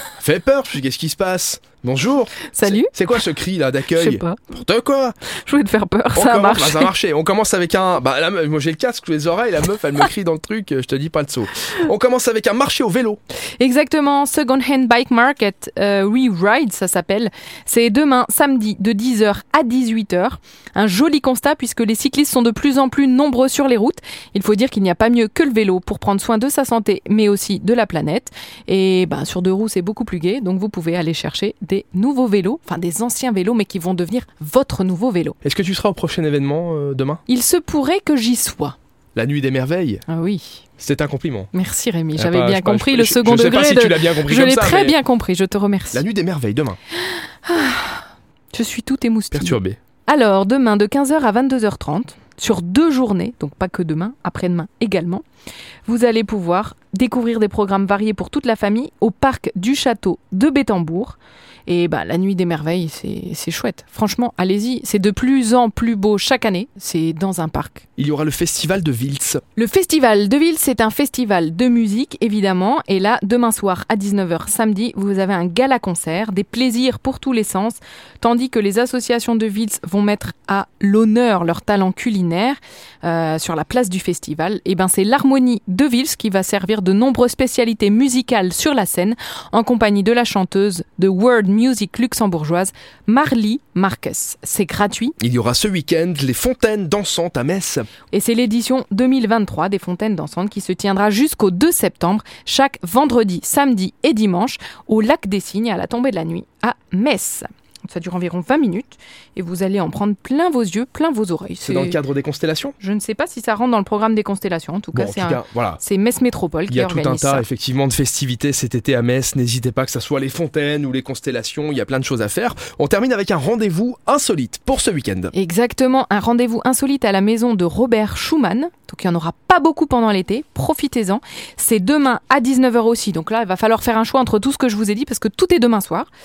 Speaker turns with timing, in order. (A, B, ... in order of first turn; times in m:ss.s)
0:00.2-0:05.2 A
0:02.5-0:02.9 B
0:03.9-0:04.5 B
0:05.4-0:06.9 B
0:06.1-0:13.2 A
0:13.6-0:35.4 B
0:35.4-0:37.2 A
0:37.3-0:38.8 B
0:39.2-0:40.0 A
0:40.1-0:40.6 B
0:40.8-0:41.5 A
0:41.5-0:46.0 B
0:42.2-0:45.0 A
0:45.9-0:46.8 A
0:47.1-0:55.2 B
0:49.3-0:49.8 A
0:55.9-1:07.8 B
1:08.0-1:09.4 A
1:09.6-1:35.2 B
1:35.2-1:37.9 A
1:38.1-1:52.0 B
1:51.6-1:52.8 A
1:52.8-1:57.4 B
1:54.9-1:55.8 A
1:56.7-2:05.3 A
2:05.3-2:16.1 B